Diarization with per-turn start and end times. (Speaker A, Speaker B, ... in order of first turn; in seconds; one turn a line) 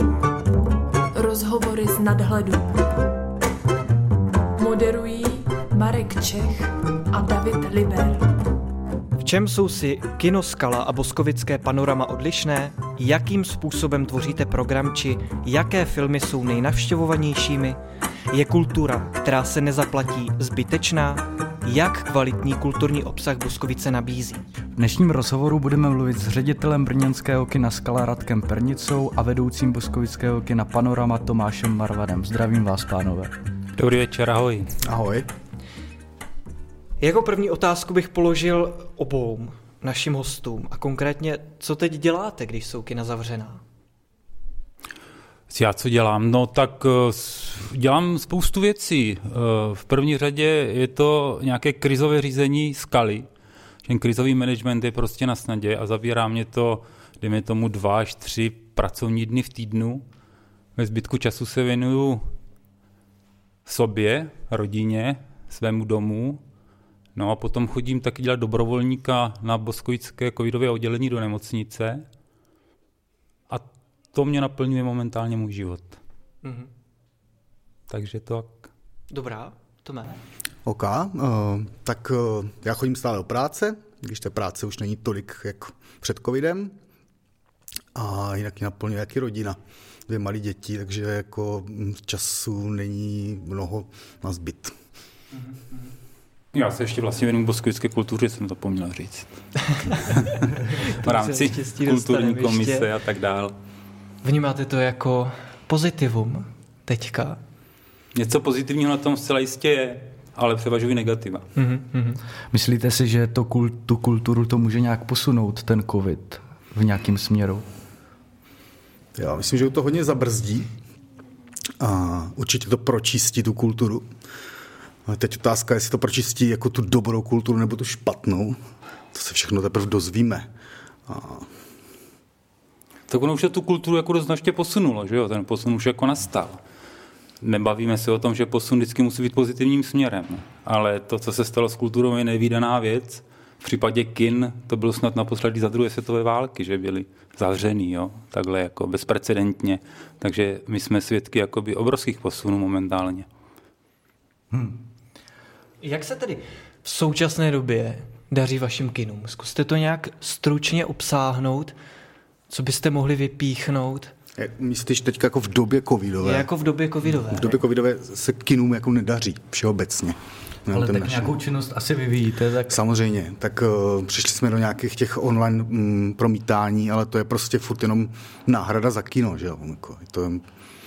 Speaker A: 1.1-2.9
Speaker A: 4.6-8.4
Speaker B: 9.2-17.8
Speaker B: 18.3-24.4
Speaker C: 24.8-33.3
Speaker D: 33.8-34.7
Speaker E: 34.8-35.3
Speaker B: 37.0-43.6
Speaker D: 45.5-53.3
Speaker D: 53.9-60.0
Speaker D: 60.8-62.3
Speaker D: 63.7-66.4
Speaker D: 67.2-72.1
Speaker D: 73.5-76.0
Speaker B: 76.4-76.7
Speaker D: 77.9-78.6
Speaker B: 79.1-80.2
Speaker E: 80.7-86.7
Speaker E: 88.0-94.8
Speaker D: 96.5-99.3
Speaker D: 99.9-103.6
Speaker B: 100.1-102.9
Speaker B: 104.2-107.4
Speaker D: 108.2-111.4
Speaker B: 111.6-112.2
Speaker C: 112.5-117.6
Speaker E: 119.2-120.7
Speaker E: 121.8-124.1
Speaker E: 125.1-128.6
Speaker E: 129.1-130.5
Speaker E: 131.1-131.5
Speaker D: 133.1-136.6
Speaker D: 137.4-153.3
Speaker C: 154.5-154.8
Speaker B: 155.8-161.8
Speaker B: 162.5-164.1
Speaker E: 164.4-166.5
Speaker B: 166.2-167.6
Speaker E: 167.2-171.3
Speaker C: 170.7-172.8
Speaker E: 172.7-180.4